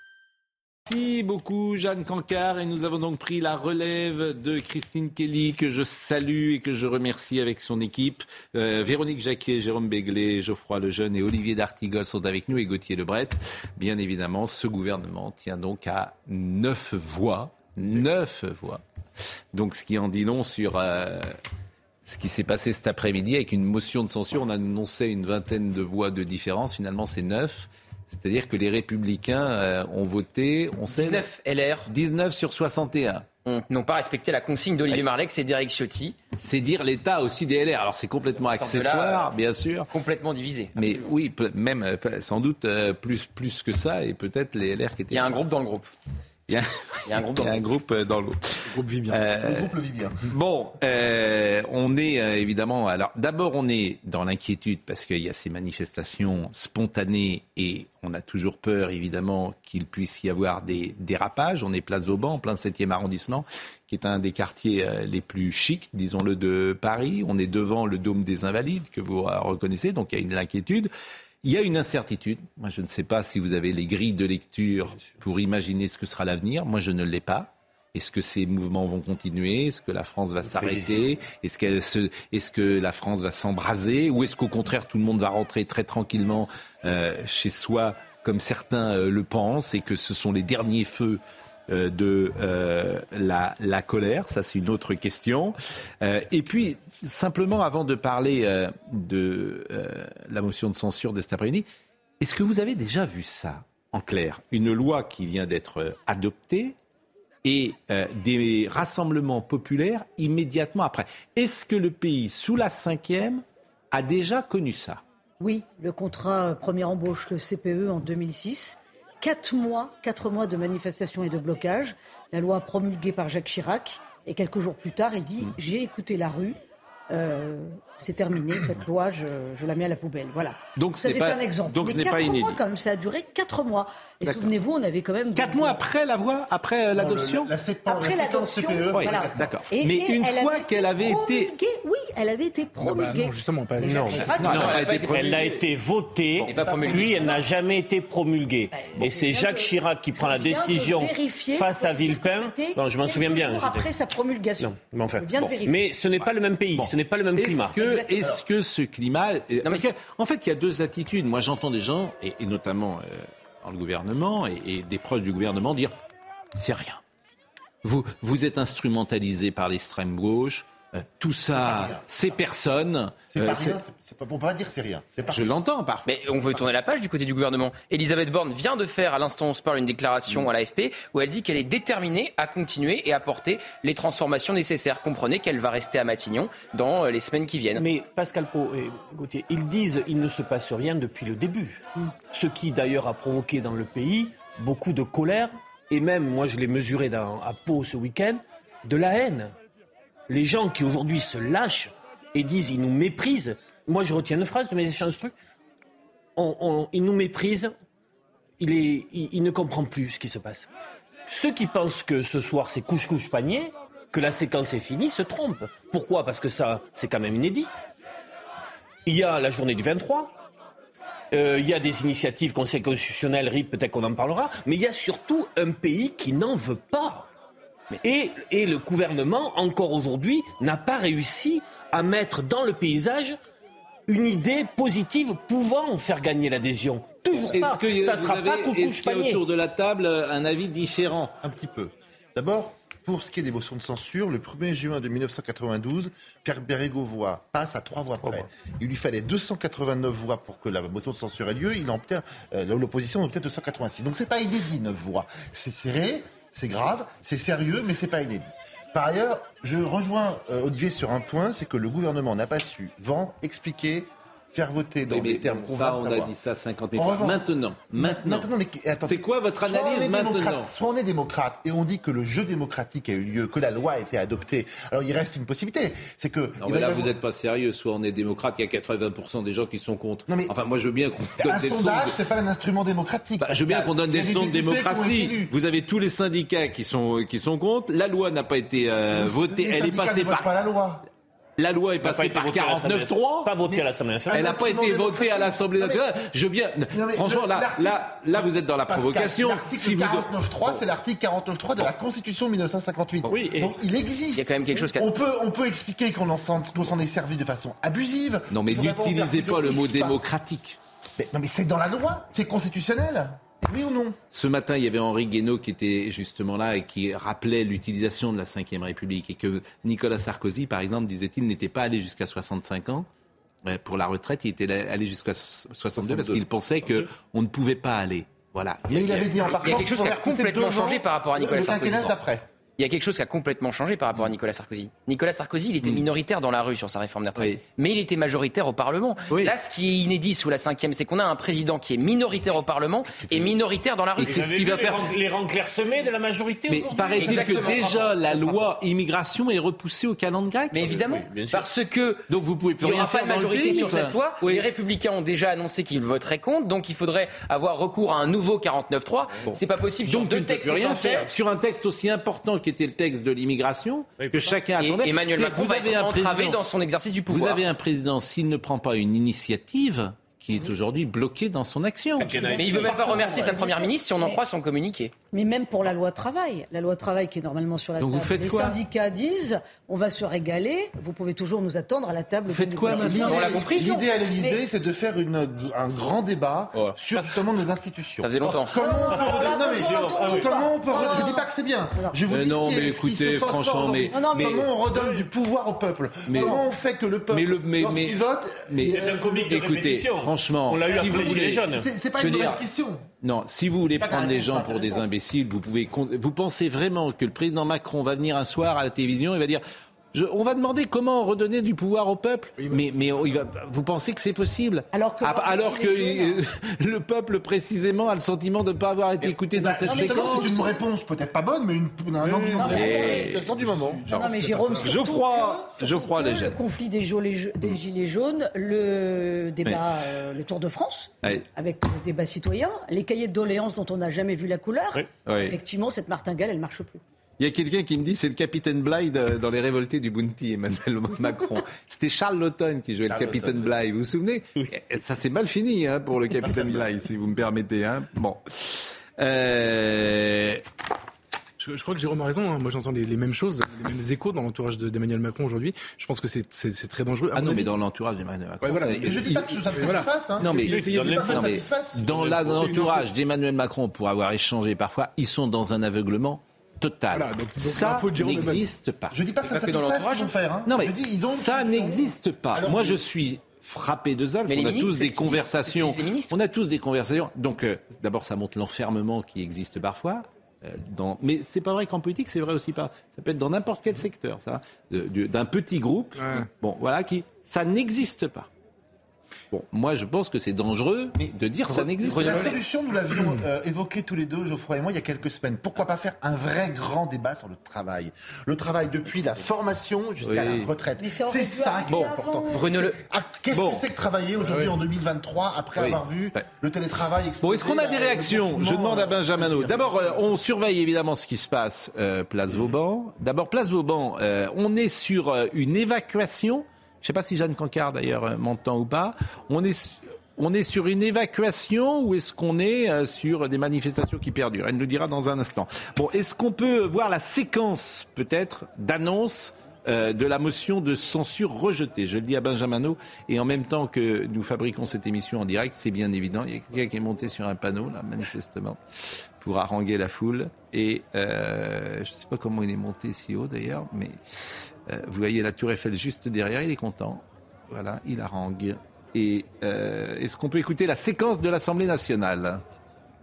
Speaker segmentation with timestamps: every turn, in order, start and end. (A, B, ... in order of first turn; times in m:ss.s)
0:00.9-0:18.8 A
0:19.5-0:21.3 A
0:22.1-0:31.2 A
0:30.9-0:31.9 B
0:31.9-0:33.3 A
0:33.4-0:36.2 B
0:36.4-0:39.9 A
0:38.4-0:39.3 B
0:39.9-0:40.8 B
0:40.8-0:45.4 A
0:45.1-0:45.9 B
0:46.5-0:49.7 A
0:47.1-0:47.6 B
0:48.7-0:49.2 C
0:49.4-0:50.2 D
0:50.2-1:10.9 A
1:11.4-1:41.7 A
1:15.0-1:15.2 E
1:20.4-1:21.1 E
1:42.2-1:46.8 A
1:47.4-1:55.0 A
1:55.4-2:06.6 F
2:07.1-2:15.8 F
2:10.8-2:12.6 A
2:14.2-2:14.5 A
2:15.3-2:17.5 A
2:16.9-2:19.5 D
2:17.8-2:24.8 F
2:18.9-2:21.5 A
2:22.8-2:24.4 C
2:23.8-2:33.9 E
2:24.4-2:25.6 A
2:24.4-2:25.2 B
2:26.4-2:27.3 B
2:26.5-2:27.1 D
2:27.0-2:27.4 F
2:28.7-2:35.8 F
2:34.6-2:37.8 E
2:36.8-2:45.9 A
2:37.8-2:38.4 F
2:39.6-2:39.9 B
2:46.5-2:47.0 A
2:47.8-2:53.8 A
2:51.6-2:52.1 D
2:53.3-2:55.5 D
2:55.2-2:56.1 A
2:56.0-3:07.8 B
3:07.8-3:19.5 E
3:20.3-3:25.3 E
3:26.4-3:27.7 E
3:28.6-3:30.7 E
3:31.3-3:37.7 E
3:39.1-3:40.3 E
3:41.3-3:47.3 E
3:48.0-3:53.4 E
3:54.1-3:59.4 E
3:57.4-4:01.4 A
4:01.4-4:26.3 D
4:25.1-4:28.5 A
4:27.0-4:37.1 D
4:29.0-4:30.7 A
4:36.6-4:42.1 A
4:40.3-4:40.5 D
4:41.4-4:45.5 D
4:43.4-4:50.4 A
4:49.1-4:51.1 D
4:51.6-5:00.3 A
4:52.0-4:54.4 E
4:54.3-4:56.1 D
4:56.9-5:10.2 D
5:03.2-5:03.7 A
5:04.4-5:05.1 B
5:08.5-5:10.8 A
5:11.2-5:14.2 D
5:14.3-5:23.1 A
5:23.6-5:29.7 A
5:26.0-5:26.4 D
5:28.9-5:32.4 D
5:29.4-5:32.2 B
5:32.8-5:44.4 B
5:37.4-5:37.6 A
5:43.2-5:43.5 A
5:44.2-5:45.2 A
5:44.2-5:47.6 E
5:46.7-5:51.0 A
5:47.2-5:48.0 B
5:47.2-5:48.7 D
5:50.7-5:52.3 B
5:50.8-5:51.7 E
5:52.3-5:54.7 A
5:52.8-6:01.3 B
5:59.4-6:06.6 A
6:04.2-6:04.6 E
6:04.8-6:07.6 B
6:07.3-6:12.6 A
6:12.2-6:13.2 E
6:12.3-6:14.4 F
6:12.5-6:15.1 B
6:15.3-6:24.6 F
6:18.0-6:18.8 A
6:22.5-6:23.6 A
6:22.9-6:39.2 D
6:23.2-6:23.7 B
6:28.2-6:28.7 B
6:28.7-6:32.2 F
6:29.1-6:30.5 E
6:32.3-6:34.8 A
6:34.1-6:34.7 F
6:34.9-6:35.2 E
6:36.3-6:36.7 A
6:36.4-6:36.6 F
6:37.3-6:42.6 A
6:38.9-6:41.9 E
6:40.8-6:43.1 D
6:43.2-6:49.6 A
6:44.0-6:45.0 D
6:50.1-7:00.6 A
6:52.6-6:52.9 C
6:54.9-6:56.4 F
6:59.6-7:04.0 D
6:59.6-7:00.8 F
7:02.2-7:02.8 C
7:02.5-7:03.5 A
7:02.6-7:03.4 F
7:03.5-7:04.9 C
7:04.1-7:17.0 F
7:04.1-7:06.6 A
7:15.2-7:15.6 A
7:17.4-7:30.6 A
7:23.1-7:23.7 D
7:26.3-7:26.9 D
7:31.6-7:37.8 C
7:37.3-7:39.4 A
7:38.6-7:41.5 C
7:39.0-7:42.7 D
7:40.4-7:49.2 A
7:40.8-7:41.5 E
7:42.5-7:43.0 C
7:47.1-7:48.7 C
7:49.1-7:53.0 D
7:49.4-7:50.3 B
7:50.7-8:08.5 A
7:54.5-7:56.4 B
8:06.2-8:06.5 C
8:09.5-8:12.6 A
8:11.2-8:30.4 D
8:12.0-8:12.4 B
8:20.2-8:20.7 A
8:21.0-8:22.8 F
8:22.5-8:23.0 B
8:23.5-8:23.8 A
8:24.4-8:24.7 C
8:27.4-9:12.6 A